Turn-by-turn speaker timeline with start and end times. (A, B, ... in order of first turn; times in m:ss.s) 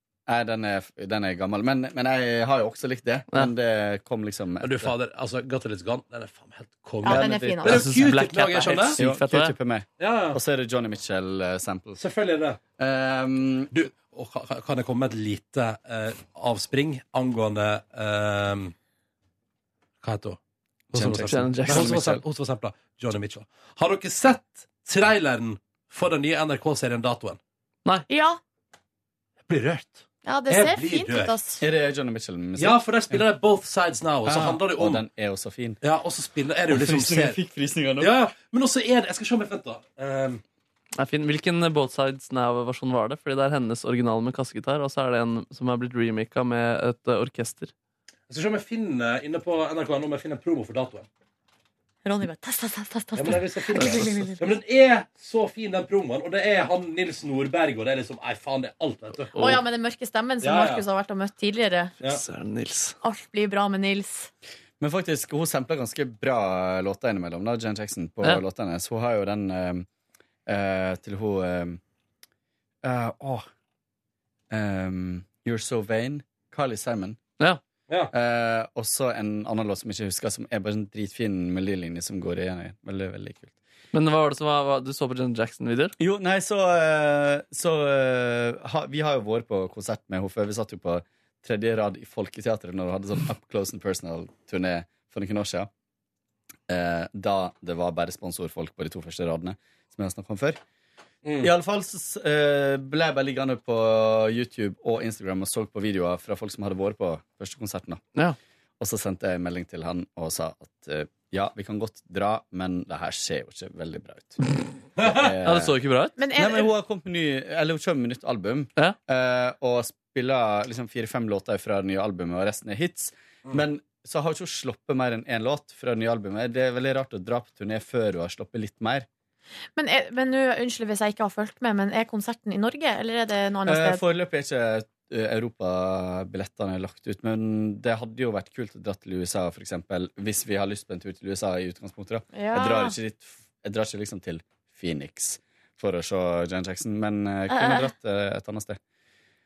0:00.3-0:04.9 A
0:04.6-0:09.0 B
0:07.0-0:07.8 C
0:07.1-0:07.8 A
0:07.6-0:09.5 D
0:09.0-0:12.0 A
0:10.0-0:10.4 B
0:12.0-0:12.6 B
0:12.8-0:13.7 A
0:13.7-0:18.7 B
0:20.0-0:20.4 B
0:20.9-0:22.2 A
0:20.9-0:27.4 B
0:21.2-0:22.0 D
0:28.1-0:28.4 C
0:29.5-0:31.3 B
0:30.2-0:31.6 C
0:31.6-0:33.2 A
0:32.6-0:35.0 B
0:34.2-0:35.8 A
0:35.8-0:37.4 B
0:36.7-0:38.1 A
0:38.0-0:40.4 B
0:41.0-0:47.7 D
0:48.3-0:51.1 B
0:52.0-0:54.4 C
0:53.1-0:59.3 B
0:59.4-1:01.9 C
1:00.4-1:00.8 B
1:02.0-1:02.9 D
1:03.0-1:04.3 C
1:04.8-1:09.8 A
1:10.5-1:11.8 A
1:12.8-1:13.4 A
1:14.5-1:17.2 A
1:18.1-1:23.5 A
1:23.9-1:25.9 D
1:26.0-1:35.7 A
1:36.7-1:40.6 A
1:41.2-1:41.5 B
1:41.4-1:48.0 A
1:48.8-1:54.4 A
1:55.0-1:55.2 B
1:55.0-1:55.8 A
1:55.4-1:56.2 D
1:56.2-1:56.7 C
1:56.3-2:09.1 A
2:09.8-2:14.0 C
2:13.6-2:28.8 A
2:22.3-2:23.0 C
2:27.5-2:27.9 C